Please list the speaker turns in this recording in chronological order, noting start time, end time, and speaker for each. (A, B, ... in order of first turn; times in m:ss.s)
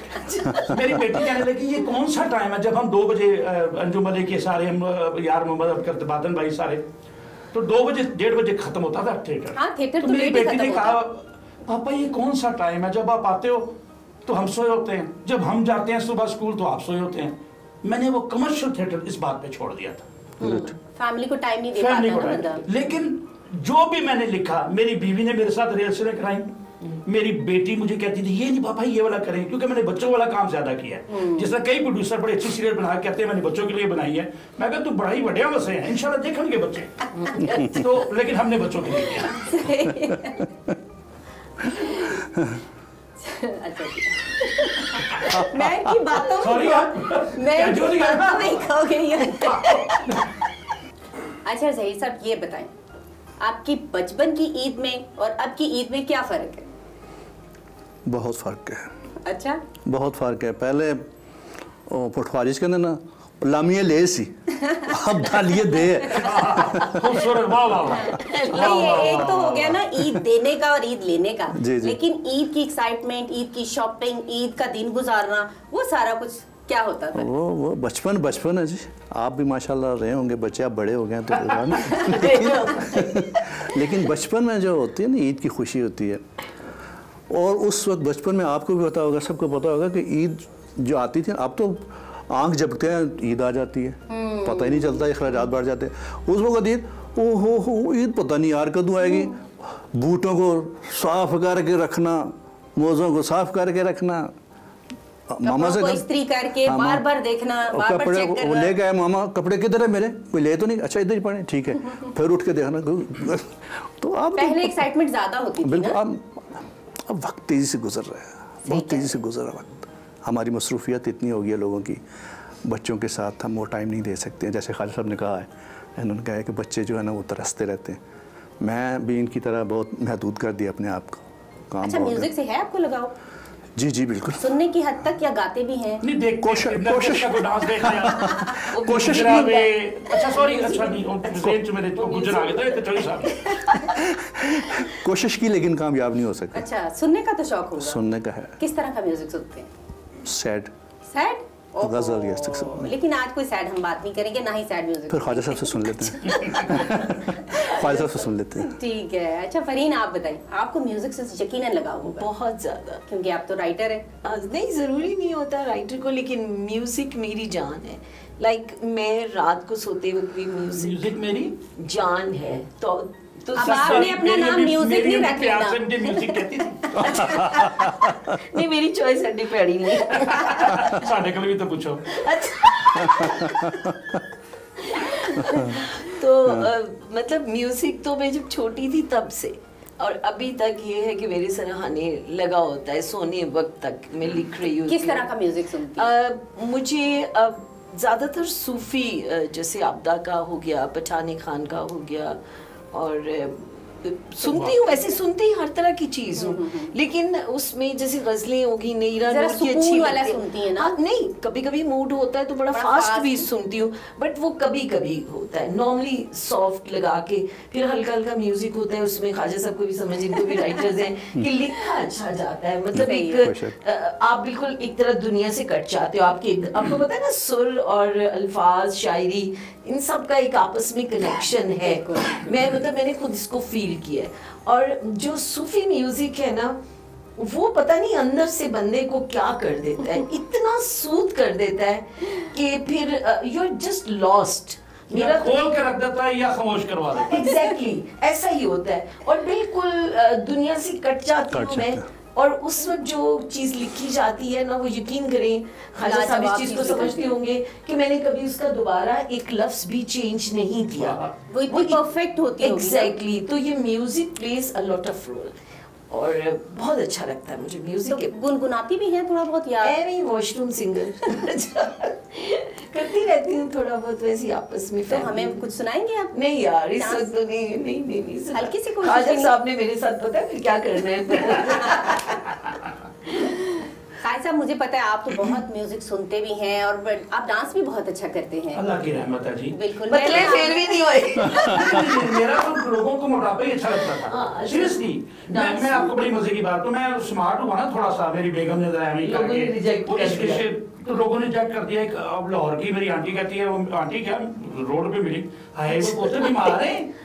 0:00.3-0:00.7 A
0:00.4-0:01.2 B
0:00.6-0:06.8 C
0:07.5-0:13.7 C
0:09.6-0:11.0 D
0:14.2-0:20.0 C
0:20.4-0:20.7 B
0:20.4-0:20.7 A
0:20.9-0:22.6 D
0:21.8-0:26.5 C
0:27.0-0:39.4 C
0:31.1-0:31.5 D
0:37.3-0:37.6 D
0:39.1-0:40.5 D
0:41.7-0:42.2 D
0:42.0-0:42.6 B
0:43.2-0:50.3 D
0:46.3-0:50.2 C
0:51.4-0:52.7 D
0:53.4-0:56.7 D
0:58.1-0:58.9 B
0:59.2-0:59.6 D
0:59.8-1:01.1 B
1:01.9-1:06.6 B
1:04.6-1:05.0 D
1:06.1-1:10.1 C
1:06.2-1:06.5 D
1:07.8-1:17.3 D
1:08.1-1:09.3 A
1:11.5-1:12.0 B
1:17.1-1:26.2 B
1:22.0-1:23.2 A
1:27.3-1:44.4 B
1:34.1-1:35.1 D
1:45.3-1:46.0 B
1:45.4-1:48.7 D
1:46.6-1:47.0 B
1:47.7-1:54.8 B
1:54.4-1:56.0 D
1:55.6-2:02.0 B
1:58.6-1:59.2 D
2:02.6-2:08.0 B
2:08.6-2:12.3 B
2:11.8-2:13.1 D
2:13.8-2:14.5 B
2:14.4-2:16.0 D
2:16.0-2:23.6 C
2:16.4-2:19.5 B
2:18.7-2:23.8 A
2:23.9-2:26.7 B
2:26.5-2:28.0 D
2:27.8-2:28.6 B
2:28.6-2:29.7 D
2:30.2-2:30.7 B
2:31.1-2:42.2 D
2:31.8-2:32.9 B
2:35.1-2:38.8 B
2:42.0-2:43.0 A
2:43.1-2:44.0 D
2:44.2-2:54.2 A
2:50.7-2:51.5 C
2:53.6-2:57.9 D
2:53.6-2:57.9 C
2:58.3-3:00.9 A
3:00.1-3:02.2 C
3:02.1-3:03.8 A
3:03.0-3:03.9 B
3:04.8-3:15.3 A
3:05.4-3:05.7 B
3:14.9-3:16.1 D
3:16.0-3:22.4 A
3:22.9-3:56.8 A
3:24.4-3:25.0 C
3:26.4-3:26.9 D
3:29.2-3:30.9 D
3:32.7-3:33.4 D
3:42.9-3:43.8 B
3:43.0-3:43.5 D
3:51.8-3:52.7 D
3:57.4-4:05.7 A
4:05.1-4:07.6 C
4:07.1-4:22.0 A
4:11.5-4:12.0 B
4:16.0-4:17.4 D
4:21.0-4:21.3 C
4:21.5-4:23.1 D
4:22.6-4:25.5 A
4:26.1-4:28.3 A
4:28.1-4:29.9 D
4:29.8-4:35.6 A
4:35.1-4:36.3 D
4:36.3-4:42.4 A
4:37.0-4:37.3 D
4:38.5-4:39.5 D
4:43.4-4:43.6 D
4:44.2-4:48.8 D
4:48.7-4:49.8 C
4:49.7-4:51.0 D
4:50.1-4:52.2 A
4:51.4-5:07.1 C
4:54.1-4:56.1 A
4:59.2-5:00.7 A